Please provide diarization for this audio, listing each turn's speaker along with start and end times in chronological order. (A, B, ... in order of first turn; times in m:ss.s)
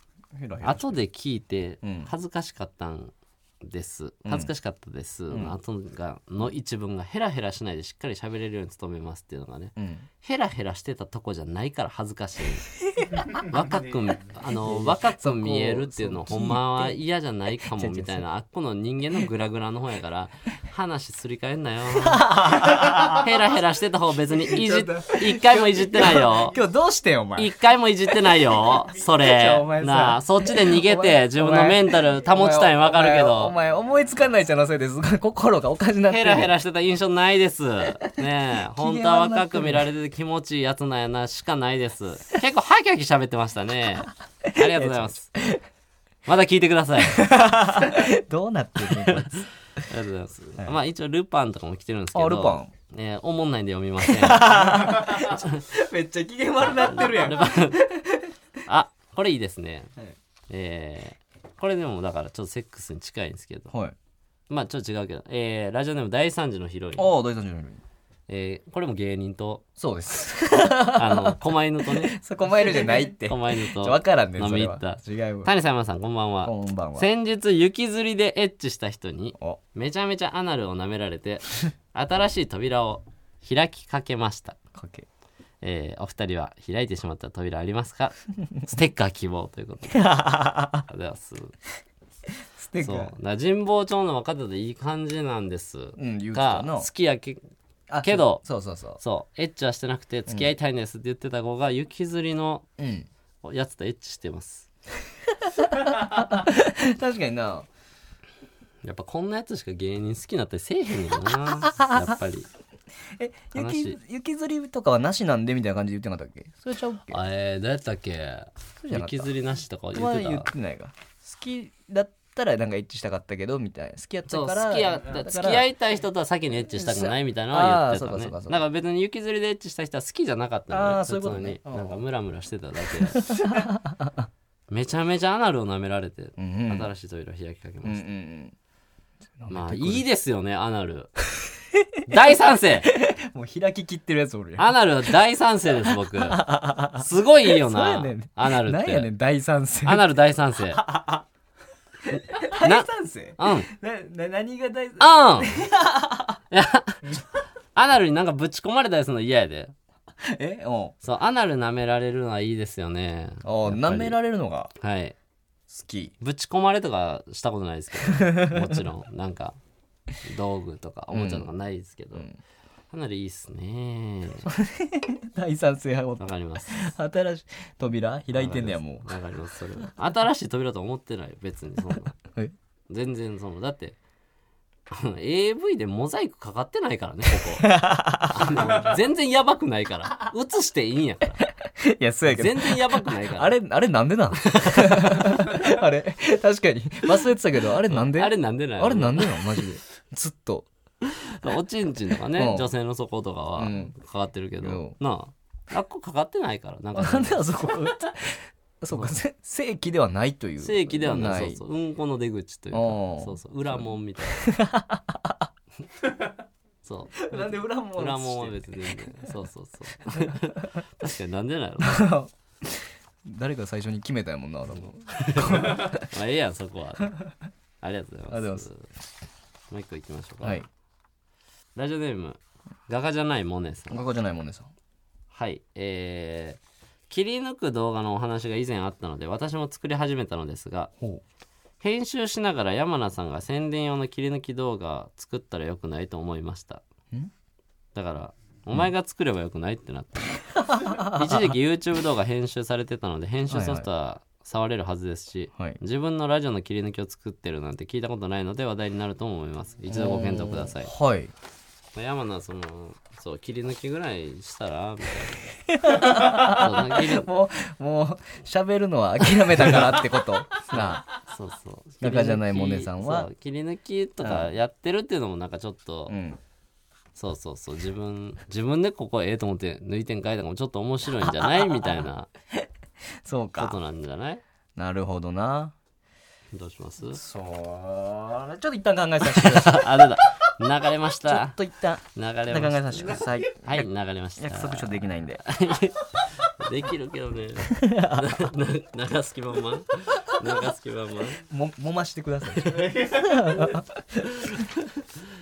0:00.3-0:01.0 A
0:00.6-0:22.3 B
0:01.8-0:02.1 A
0:04.2-0:04.5 A
0:09.8-0:10.1 A
0:14.6-0:17.0 A
0:17.7-0:18.2 A
0:22.0-0:23.3 A
0:22.9-0:26.6 B
0:24.4-0:27.5 A
0:27.4-0:33.5 B
0:29.1-0:36.5 A
0:36.1-0:45.3 B
0:38.8-0:39.8 A
0:44.4-0:45.6 A
0:46.2-0:47.3 B
0:47.0-0:49.4 A
0:48.8-0:55.6 B
0:52.1-0:52.7 A
0:54.0-0:58.3 A
0:56.8-0:57.8 B
0:58.6-0:59.9 B
1:00.5-1:03.7 B
1:03.7-1:03.9 A
1:04.5-1:07.1 B
1:07.0-1:07.8 A
1:08.3-1:09.6 B
1:09.8-1:15.5 A
1:10.6-1:12.2 B
1:13.2-1:24.6 B
1:16.4-1:17.1 A
1:24.7-1:25.0 A
1:25.6-1:30.0 B
1:29.9-1:30.8 A
1:30.9-1:31.5 B
1:32.6-1:33.1 A
1:32.8-1:37.4 B
1:36.0-1:36.9 A
1:37.9-1:39.0 A
1:38.0-1:38.4 B
1:39.0-1:42.6 B
1:42.8-1:43.1 A
1:43.4-1:44.7 B
1:45.4-1:47.7 A
1:48.8-1:52.5 B
1:51.6-1:52.1 A
1:53.1-1:57.2 A
1:53.5-1:54.0 B
1:57.1-2:00.5 B
1:58.8-1:59.3 A
1:59.9-2:05.6 A
2:04.3-2:13.3 B
2:06.7-2:08.6 A
2:10.7-2:12.0 A
2:13.1-2:14.3 A
2:14.7-2:18.0 B
2:16.4-2:16.9 A
2:17.8-2:18.5 A
2:19.4-2:20.0 A
2:19.5-2:21.1 B
2:21.4-2:22.3 A
2:22.0-2:22.9 B
2:22.8-2:24.7 A
2:24.6-2:29.1 B
2:25.8-2:30.0 A
2:29.8-2:30.8 B
2:30.7-2:31.2 A
2:32.1-2:36.4 A
2:32.2-2:33.7 B
2:35.0-2:35.6 B
2:36.5-2:37.2 B
2:37.7-2:39.7 B
2:40.2-2:40.9 A
2:41.0-2:44.2 B
2:43.4-2:44.7 A
2:44.8-2:45.1 B
2:45.7-2:46.1 A
2:46.2-2:49.6 B
2:48.1-2:48.7 A
2:50.2-2:52.3 B
2:51.1-2:51.5 A
2:52.1-2:52.4 A
2:52.9-2:54.5 B
2:54.4-2:59.1 A
2:56.2-2:56.9 B
2:58.3-3:02.1 B
3:02.1-3:02.5 A
3:02.9-3:04.0 B
3:04.9-3:11.4 B
3:07.3-3:08.9 A
3:11.6-3:20.7 A
3:12.3-3:13.5 B
3:14.4-3:15.6 B
3:17.9-3:19.6 B
3:21.0-3:27.4 B
3:22.3-3:22.7 A
3:23.6-3:23.9 A
3:24.6-3:25.0 A
3:26.9-3:31.6 A
3:30.6-3:34.5 B
3:32.7-3:35.5 A
3:36.8-3:42.1 B
3:37.2-3:39.3 A
3:40.1-3:40.8 A
3:41.8-3:46.1 A
3:45.1-3:47.2 B
3:47.8-3:48.9 B
3:48.3-3:48.7 A
3:49.7-3:50.6 B
3:51.8-3:54.0 B
3:53.9-3:54.7 A
3:55.3-3:56.6 B
3:57.1-4:00.9 B
4:01.8-4:06.8 B
4:07.9-4:20.9 B
4:10.7-4:11.5 A
4:13.5-4:13.9 A
4:19.9-4:21.3 A
4:21.9-4:27.3 B
4:25.7-4:31.0 A
4:30.7-4:36.1 B
4:32.0-4:33.3 A
4:34.2-4:34.5 A
4:36.1-4:36.4 A
4:37.1-4:42.3 B
4:41.2-4:41.9 A
4:43.2-4:43.8 A
4:43.6-4:44.4 B
4:44.8-4:45.7 A
4:46.5-4:47.2 B
4:47.1-4:50.0 A
4:49.3-4:51.6 B
4:51.2-4:55.4 A
4:52.1-5:01.4 B
4:57.7-4:58.4 A
5:01.5-5:04.2 A
5:02.7-5:03.0 B
5:04.4-5:04.7 B